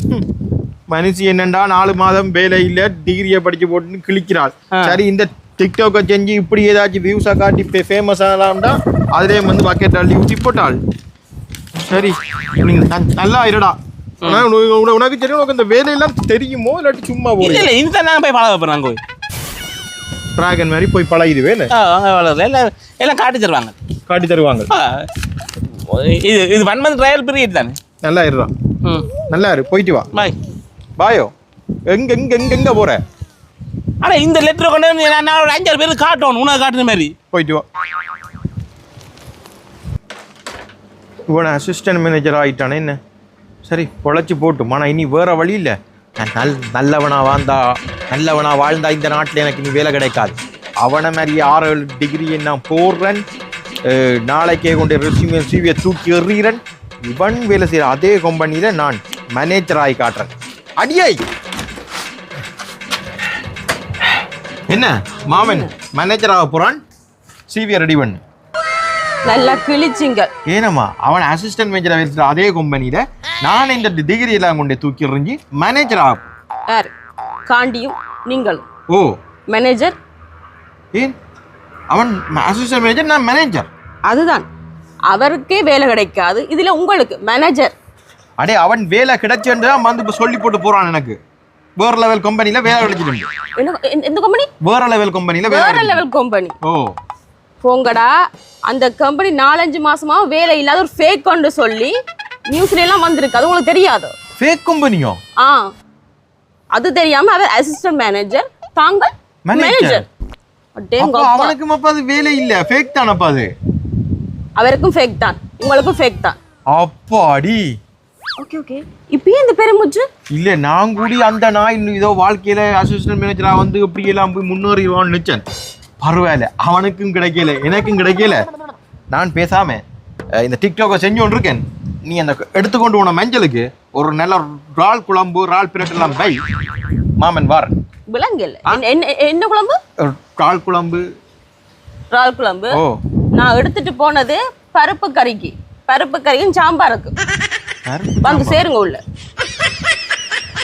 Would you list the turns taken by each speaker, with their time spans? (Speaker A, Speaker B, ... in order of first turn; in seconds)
Speaker A: 0.9-10.8, 11.8-17.7, 20.4-21.7, 24.1-24.7, 28.0-28.5, 29.3-30.1, 31.0-31.3, 31.9-33.0, 37.3-37.6, 41.3-43.0, 43.7-53.2, 53.9-61.2, 64.7-66.8, 67.5-68.2, 70.5-76.2, 81.9-83.7, 88.4-91.2, 91.8-93.3, 94.6-96.0, 96.7-97.0, 104.4-105.2, 109.5-110.0, 111.0-113.5, 116.7-117.6, 120.3-125.4, 126.0-128.4, 129.1-129.8, 130.4-136.4, 137.2-137.7, 140.0-141.0, 147.9-148.6
Speaker B: 17.4-19.0, 21.7-23.8, 24.7-25.1, 25.9-27.8, 28.8-29.1, 34.0-37.1
Speaker C: 69.2-70.3, 77.5-78.6, 79.5-80.0, 84.1-84.5, 85.1-87.8, 93.6-94.5, 95.4-96.6, 97.6-98.1, 98.7-101.9, 102.5-104.1, 106.7-110.1, 110.8-111.6, 114.6-116.4, 118.4-120.0, 138.1-139.8, 142.1-142.7, 143.4-147.2, 148.2-149.0